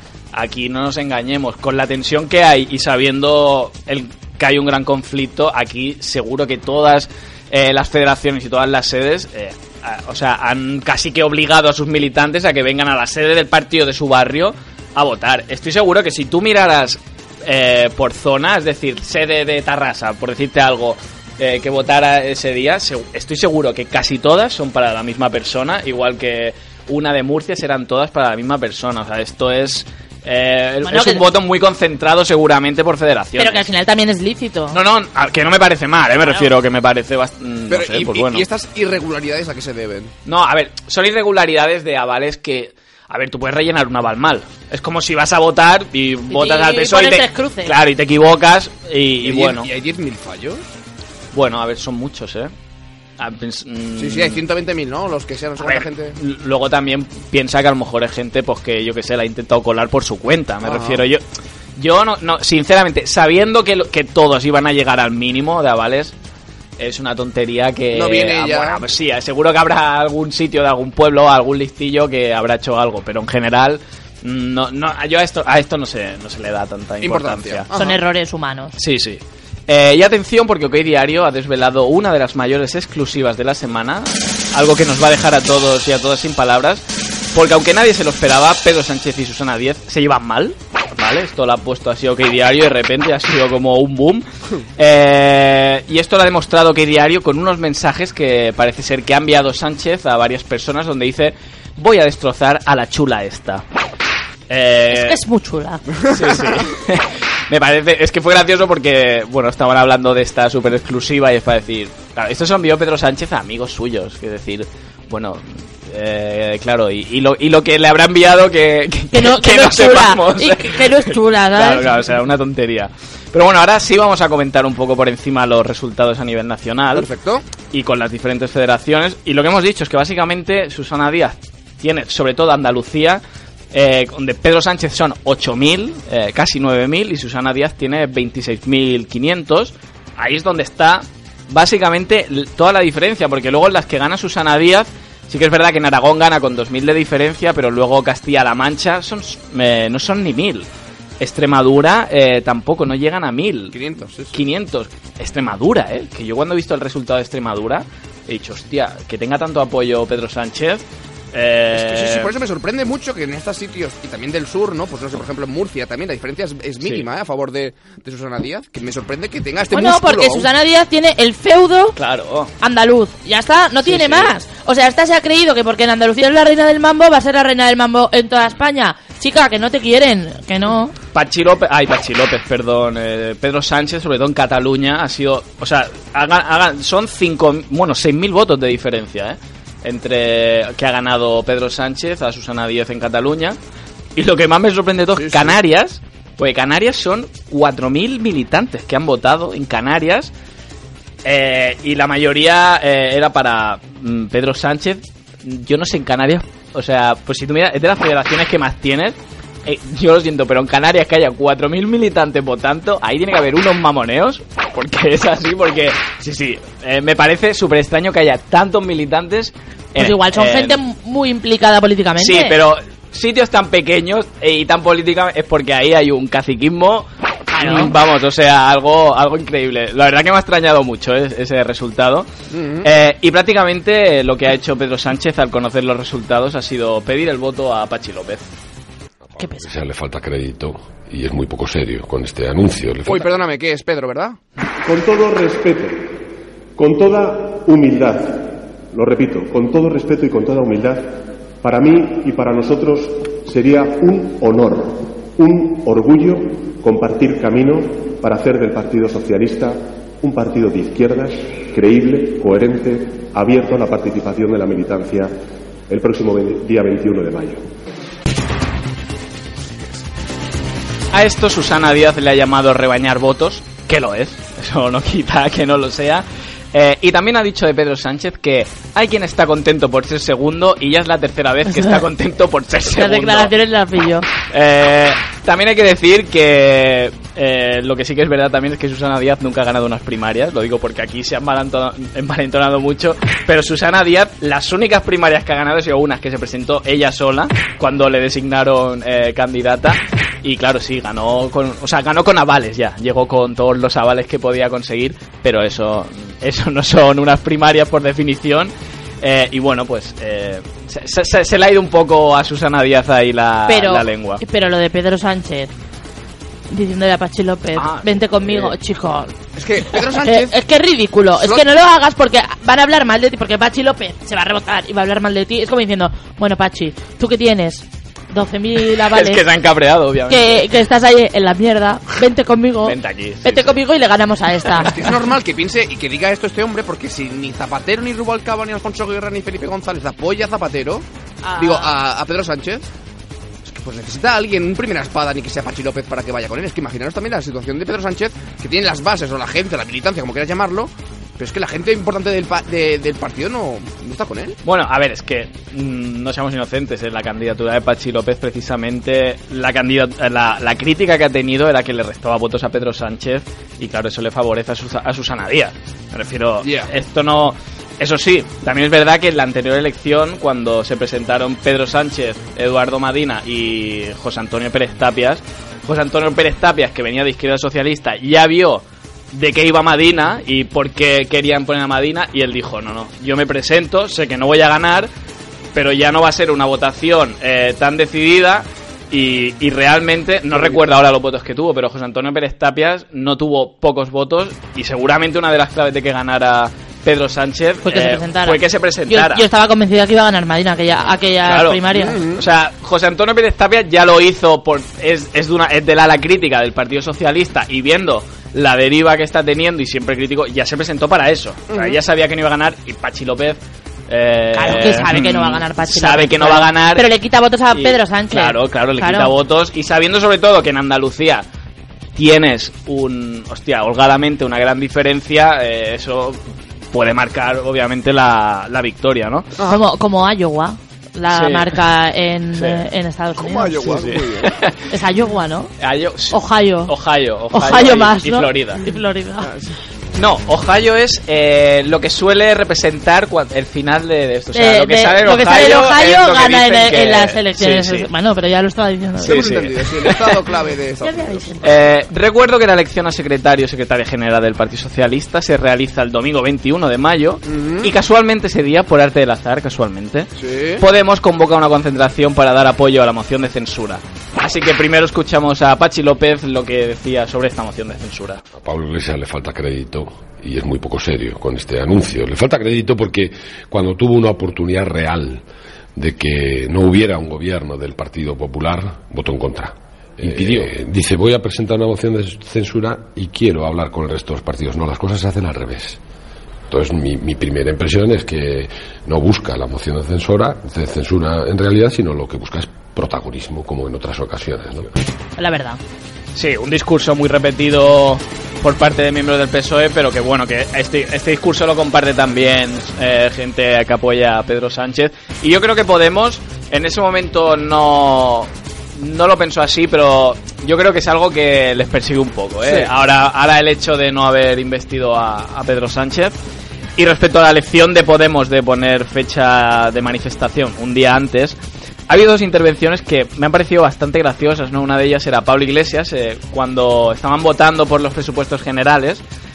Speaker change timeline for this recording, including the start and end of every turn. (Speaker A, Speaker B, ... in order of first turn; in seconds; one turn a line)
Speaker A: 0.3-33.7
Speaker B: 30.8-31.2
Speaker B: 33.4-34.8
Speaker A: 34.7-38.4
Speaker C: 37.7-40.1
Speaker A: 40.2-49.7
Speaker B: 46.3-47.7
Speaker C: 49.2-50.6
Speaker A: 51.3-52.5
Speaker A: 53.2-54.4
Speaker C: 54.0-56.1
Speaker A: 55.6-61.2
Speaker C: 60.6-61.0
Speaker A: 61.8-66.1
Speaker A: 66.8-77.7
Speaker C: 67.9-68.8
Speaker C: 77.0-78.0
Speaker B: 77.7-78.7
Speaker A: 78.8-94.2
Speaker A: 94.8-103.6
Speaker A: 104.5-105.2
Speaker B: 104.9-105.8
Speaker A: 106.1-127.1
Speaker B: 119.1-121.9
Speaker C: 126.9-127.5
Speaker A: 127.7-150.7
Speaker A: 151.2-153.8
Speaker C: 153.7-154.4
Speaker A: 154.3-162.3
Speaker C: 161.7-170.5
Speaker B: 169.7-171.9
Speaker A: 171.9-172.5
Speaker B: 172.6-180.9
Speaker A: 173.8-174.3
Speaker A: 181.1-193.6
Speaker A: 194.2-200.3
Speaker C: 195.1-195.6
Speaker A: 201.2-220.8
Speaker B: 220.0-222.5
Speaker A: 222.2-227.1
Speaker B: 227.5-227.9
Speaker A: 227.6-232.3
Speaker C: 232.5-232.9
Speaker A: 232.8-238.5
Speaker B: 239.4-239.7
Speaker D: 239.4-243.2
Speaker C: 243.0-244.4
Speaker E: 244.8-246.2
Speaker E: 246.8-265.3
Speaker E: 265.9-267.6
Speaker A: 271.1-283.5
Speaker B: 281.7-282.0
Speaker B: 282.9-284.3
Speaker A: 284.5-314.4
Speaker B: 313.7-315.7
Speaker B: 316.7-319.3
Speaker A: 317.8-318.7
Speaker C: 319.6-320.5
Speaker B: 320.2-329.4
Speaker C: 321.4-321.6
Speaker A: 328.9-330.6
Speaker B: 330.3-335.0
Speaker A: 332.8-333.8
Speaker C: 334.8-342.9
Speaker B: 341.4-341.9
Speaker C: 343.6-354.6
Speaker A: 354.6-385.1
Speaker C: 366.6-366.9
Speaker A: 385.7-399.4
Speaker B: 397.8-402.2
Speaker A: 401.4-417.1
Speaker C: 401.9-402.4
Speaker C: 411.7-412.0
Speaker B: 414.5-419.3
Speaker A: 417.7-421.4
Speaker A: 422.1-426.4
Speaker A: 426.9-429.5
Speaker B: 429.6-434.1
Speaker A: 431.3-431.8
Speaker A: 432.5-432.8
Speaker C: 433.4-434.5
Speaker A: 433.8-434.8
Speaker B: 434.9-435.7
Speaker A: 435.8-438.8
Speaker B: 436.3-436.9
Speaker B: 437.5-439.5
Speaker C: 439.4-439.8
Speaker A: 440.1-448.1
Speaker B: 444.5-449.5
Speaker C: 449.2-451.5
Speaker A: 449.2-450.4
Speaker B: 451.0-451.9
Speaker A: 451.6-460.3
Speaker C: 457.5-457.9
Speaker C: 460.4-460.8
Speaker A: 460.8-468.4
Speaker D: 468.5-475.4
Speaker D: 475.9-485.9
Speaker D: 486.7-494.9
Speaker B: 495.4-495.8
Speaker A: 496.3-516.3
Speaker C: 512.6-512.9
Speaker A: 517.0-521.5
Speaker A: 522.1-529.2